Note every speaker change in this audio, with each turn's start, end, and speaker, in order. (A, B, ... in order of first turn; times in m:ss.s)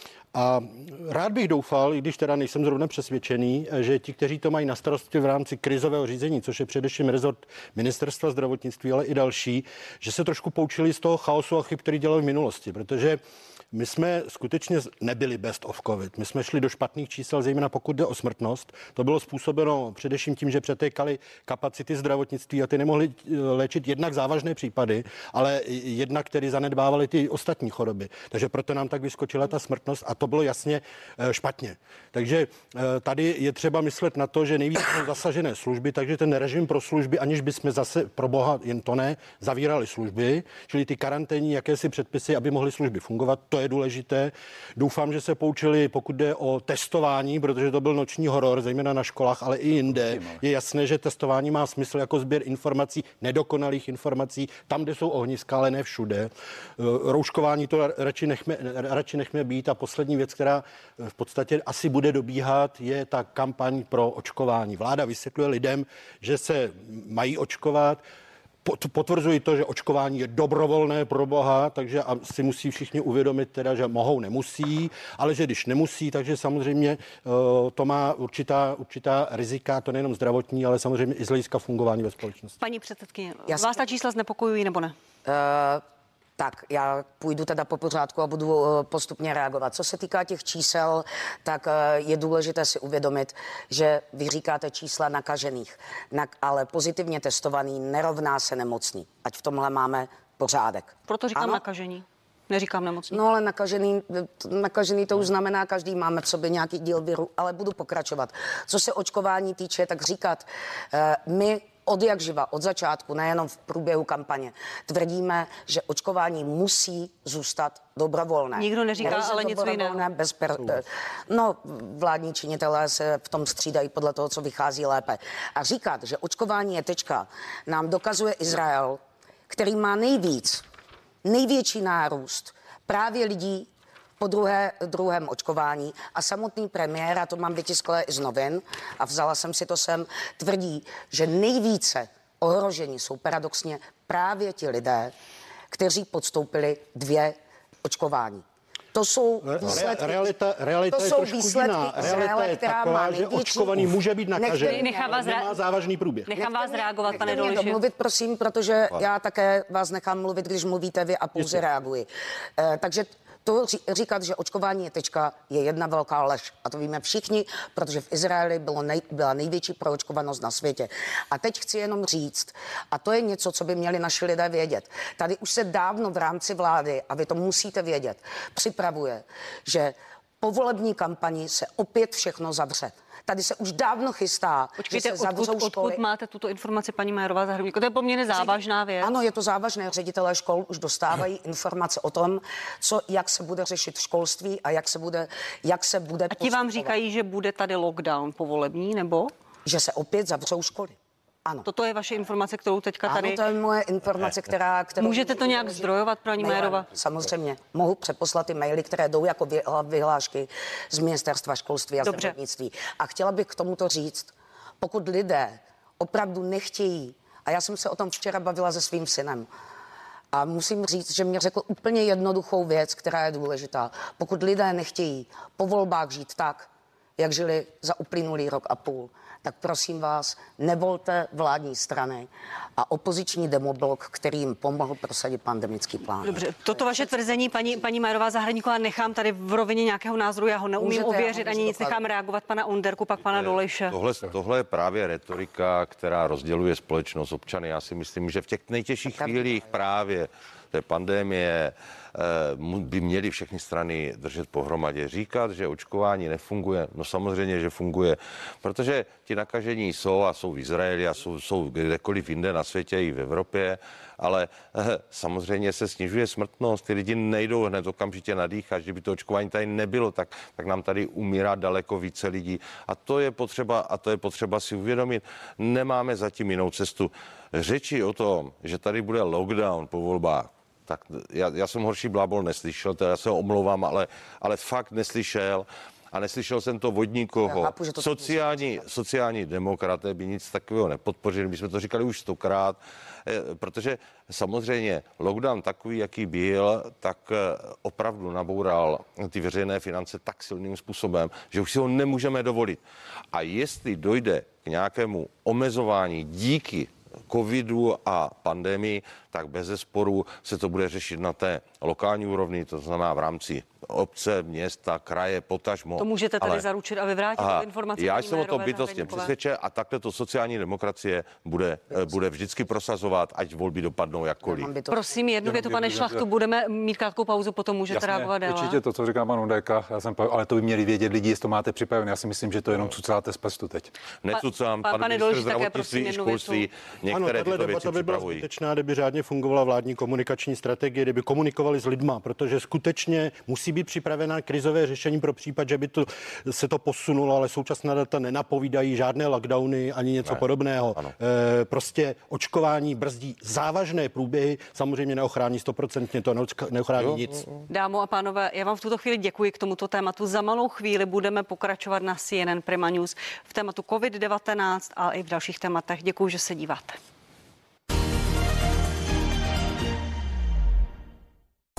0:00.3-0:13.2 A
0:13.7-1:08.0 A
0:49.9-0:50.4 B
1:08.6-1:22.6 A
1:22.6-1:25.0 C
1:25.2-1:25.8 D
1:26.4-1:41.6 D
1:41.1-1:43.2 C
1:43.1-2:10.6 D
1:58.6-2:00.0 C
2:11.2-2:25.1 D
2:25.7-2:30.2 D
2:29.4-2:36.3 A
2:30.9-2:35.2 D
2:34.6-2:35.6 C
2:36.3-2:37.8 C
2:36.3-3:06.0 D
3:04.8-3:09.1 C
3:09.0-3:16.9 D
3:16.3-3:19.3 C
3:19.7-3:21.7 D
3:21.6-3:23.4 C
3:23.1-3:39.5 D
3:25.0-3:26.9 C
3:32.0-3:32.3 C
3:40.3-3:57.1 D
3:56.2-4:04.0 C
4:00.8-4:02.0 D
4:03.9-5:02.8 E
4:09.1-4:09.7 D
4:47.4-4:48.8 D
5:03.3-5:16.6 E
5:16.0-5:19.3 C
5:17.4-5:24.7 E
5:24.4-5:25.0 D
5:24.9-5:28.8 C
5:25.4-5:26.2 B
5:27.9-5:33.9 B
5:34.2-5:38.4 E
5:34.3-5:36.7 C
5:37.1-5:57.4 A
5:57.0-5:57.4 E
5:57.7-6:07.0 C